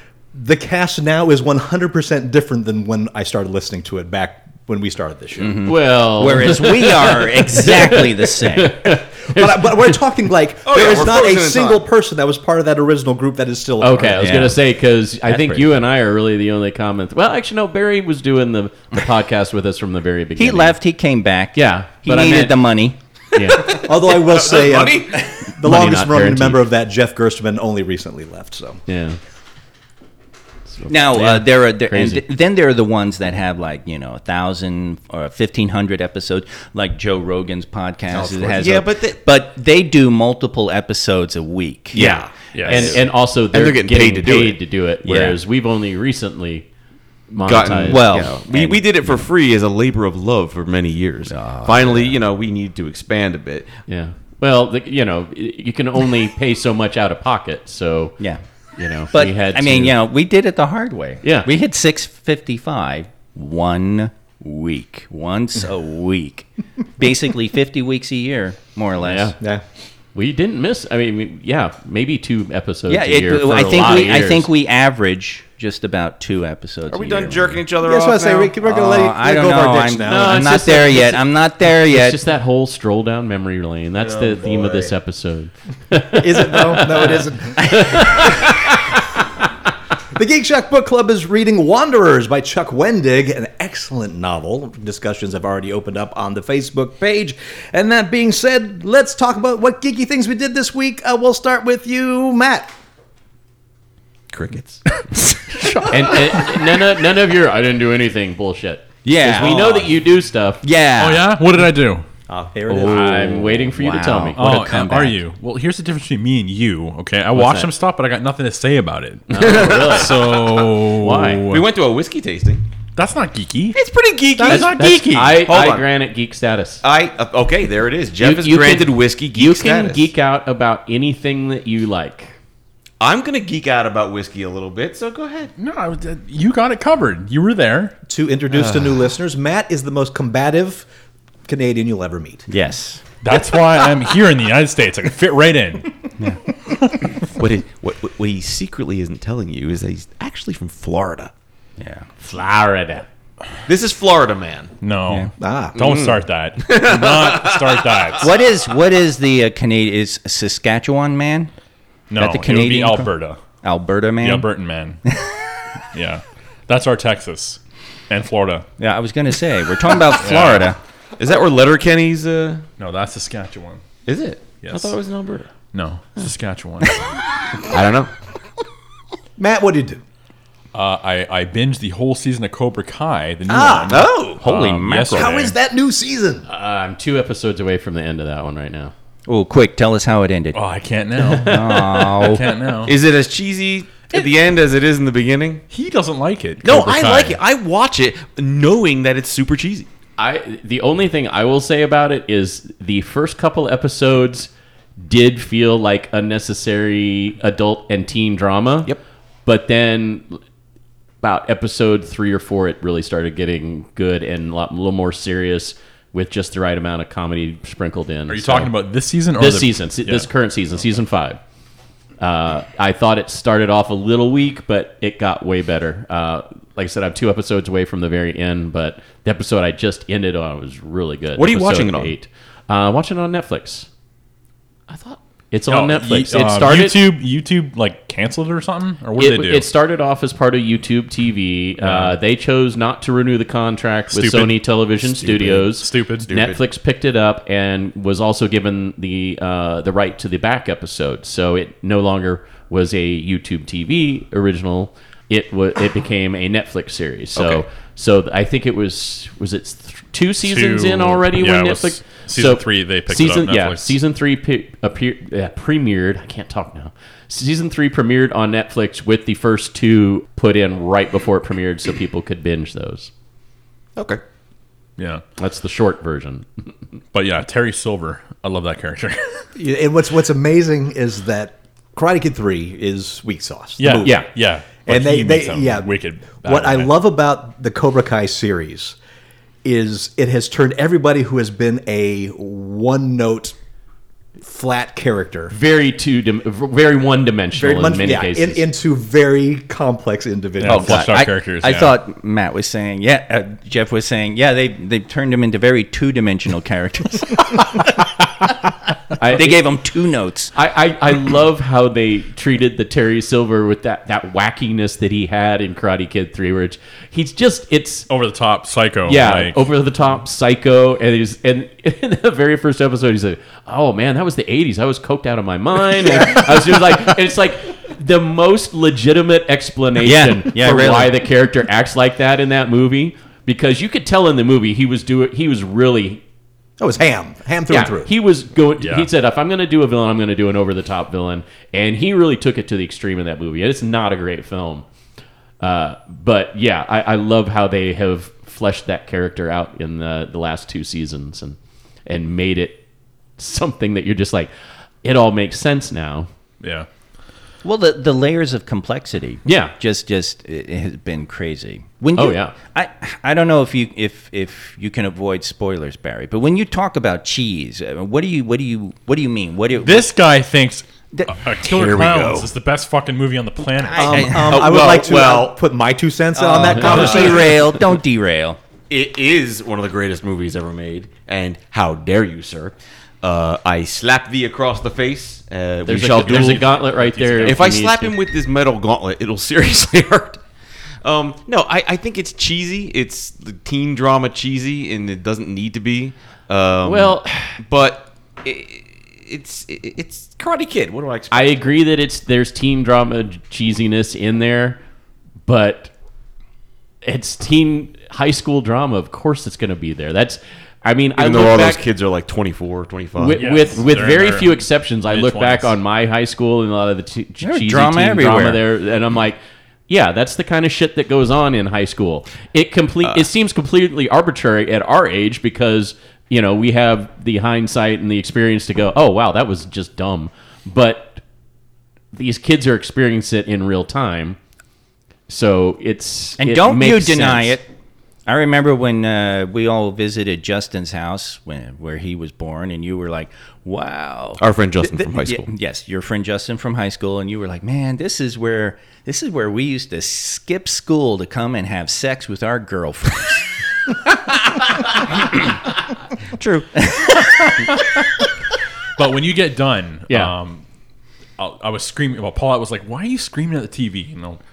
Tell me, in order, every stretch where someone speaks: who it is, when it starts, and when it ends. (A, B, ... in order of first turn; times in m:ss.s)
0:00.3-0:05.7 A
0:05.4-0:09.0 B
0:05.6-0:10.0 C
0:09.2-0:14.5 A
0:10.6-0:11.8 D
0:13.8-0:20.8 C
0:14.2-0:14.6 B
0:15.2-0:15.7 B
0:20.4-0:23.0 B
0:21.5-0:22.7 C
0:23.3-0:23.8 C
0:23.6-0:28.8 A
0:23.6-0:25.4 D
0:25.6-0:26.6 C
0:28.9-0:29.2 C
0:30.7-0:32.2 C
0:30.9-0:42.3 B
0:38.1-0:39.2 D
0:41.9-0:43.0 D
0:42.0-0:46.6 C
0:42.5-0:43.0 E
0:43.5-0:44.6 D
0:45.0-0:45.4 B
0:47.3-0:48.2 C
0:47.4-0:53.8 D
0:47.8-0:49.2 B
0:51.3-0:52.2 B
0:53.9-0:58.2 C
0:58.8-1:00.0 C
0:59.1-1:09.3 B
1:01.2-1:01.5 C
1:09.0-1:09.4 C
1:10.1-1:14.5 C
1:12.9-1:17.6 B
1:16.9-1:18.6 D
1:17.8-1:20.7 A
1:18.6-1:22.2 B
1:20.0-1:29.0 C
1:24.0-1:24.9 D
1:26.1-1:28.6 A
1:30.1-1:42.7 A
1:44.3-1:45.4 D
1:45.6-1:46.2 E
1:45.9-1:50.6 C
1:49.0-1:49.9 B
1:50.6-1:51.4 B
1:51.0-1:52.0 E
1:52.3-1:53.6 A
1:52.7-1:54.4 C
1:52.9-1:55.2 B
1:54.3-2:01.7 E
1:57.3-1:57.7 C
1:59.3-2:00.3 C
1:59.3-2:00.8 D
2:00.9-2:01.4 C
2:01.5-2:02.6 D
2:03.0-2:03.8 E
2:03.7-2:04.7 D
2:04.4-2:05.4 E
2:04.4-2:05.2 B
2:04.4-2:06.8 C
2:05.4-2:05.9 D
2:06.8-2:10.1 D
2:08.2-2:12.3 C
2:13.0-2:15.5 D
2:15.6-2:18.0 E
2:18.1-2:20.9 A
2:18.5-2:18.8 D
2:21.5-2:22.5 A
2:22.5-2:23.0 B
2:23.2-2:25.9 E
2:27.3-2:31.3 D
2:31.8-2:32.1 B
2:32.2-2:33.0 C
2:33.7-2:34.7 D
2:34.8-2:38.3 E
2:35.4-2:35.8 A
2:35.8-2:38.2 D
2:38.2-2:41.5 B
2:42.1-2:43.4 E
2:42.2-2:43.1 B
2:43.6-2:44.5 B
2:44.2-2:45.0 E
2:45.1-2:45.4 B
2:45.9-2:48.6 E
2:48.8-2:50.8 B
2:50.2-2:50.7 E
2:51.2-2:52.6 D
2:52.8-2:53.8 E
2:54.0-2:55.5 D
2:54.6-2:54.9 E
2:55.7-2:57.2 E
2:57.6-2:58.1 D
2:59.4-3:00.0 A
3:00.7-3:05.5 E
3:03.5-3:04.0 A
3:03.9-3:04.3 D
3:04.2-3:05.4 B
3:05.1-3:06.4 A
3:06.5-3:08.9 C
3:09.3-3:10.6 B
3:10.5-3:12.9 E
3:11.4-3:12.5 B
3:12.8-3:15.6 D
3:15.7-3:17.4 E
3:16.6-3:19.9 D
3:20.2-3:28.9 C
3:29.4-3:30.4 C
3:31.2-3:38.7 C
3:38.3-3:40.3 E
3:39.3-3:41.4 C
3:42.2-3:53.9 C
3:51.4-3:52.1 D
3:54.9-3:55.2 D
3:55.5-3:57.0 C
3:55.7-3:59.7 E
3:59.2-4:33.1 C
4:01.8-4:02.2 E
4:04.1-4:06.3 E
4:06.3-4:06.6 D
4:17.4-4:17.6 D
4:20.4-4:24.0 E
4:34.0-4:34.2 D
4:35.0-4:35.2 E
4:35.4-4:36.5 C
4:37.1-4:39.4 E
4:39.6-4:44.2 A
4:43.8-4:46.9 E
4:44.0-4:44.3 C
4:44.8-4:49.0 A
4:49.6-4:53.5 A
4:54.4-4:55.5 A
4:55.5-4:58.6 C
4:57.5-5:01.0 A
5:00.6-5:02.0 E
5:00.6-5:08.0 B
5:09.2-5:09.6 C
5:09.2-5:10.5 B
5:10.5-5:18.1 C
5:18.1-5:19.6 E
5:19.0-5:36.2 C
5:30.0-5:31.1 B
5:36.8-5:38.1 A
5:37.7-5:44.8 C
5:38.8-5:39.1 E
5:45.6-5:52.8 C
5:53.4-5:54.5 C
5:55.0-5:56.3 C
5:56.6-5:56.9 E
5:57.6-6:10.1 B
5:59.4-5:59.7 C
6:02.2-6:02.5 C
6:09.8-6:14.4 E
6:11.6-6:12.5 D
6:13.9-6:14.7 B
6:13.9-6:17.6 A
6:14.5-6:15.6 D
6:16.3-6:18.6 B
6:16.8-6:17.6 D
6:18.9-6:26.6 D
6:25.8-6:28.2 C
6:26.1-6:27.7 E
6:27.4-6:30.4 D
6:31.0-6:41.7 D
6:36.8-6:37.6 C
6:41.3-6:44.8 C
6:45.5-6:45.9 C
6:47.0-6:51.8 C
6:51.2-6:53.6 D
6:53.2-7:11.2 C
6:53.3-6:55.8 E
6:57.4-6:58.6 B
7:12.1-7:14.4 C
7:15.3-7:17.6 C
7:16.4-7:17.7 B
7:18.2-7:33.5 B
7:24.4-7:25.5 D
7:36.4-7:36.9 D
7:36.8-7:37.3 B
7:39.0-7:40.6 E
7:41.4-7:44.4 E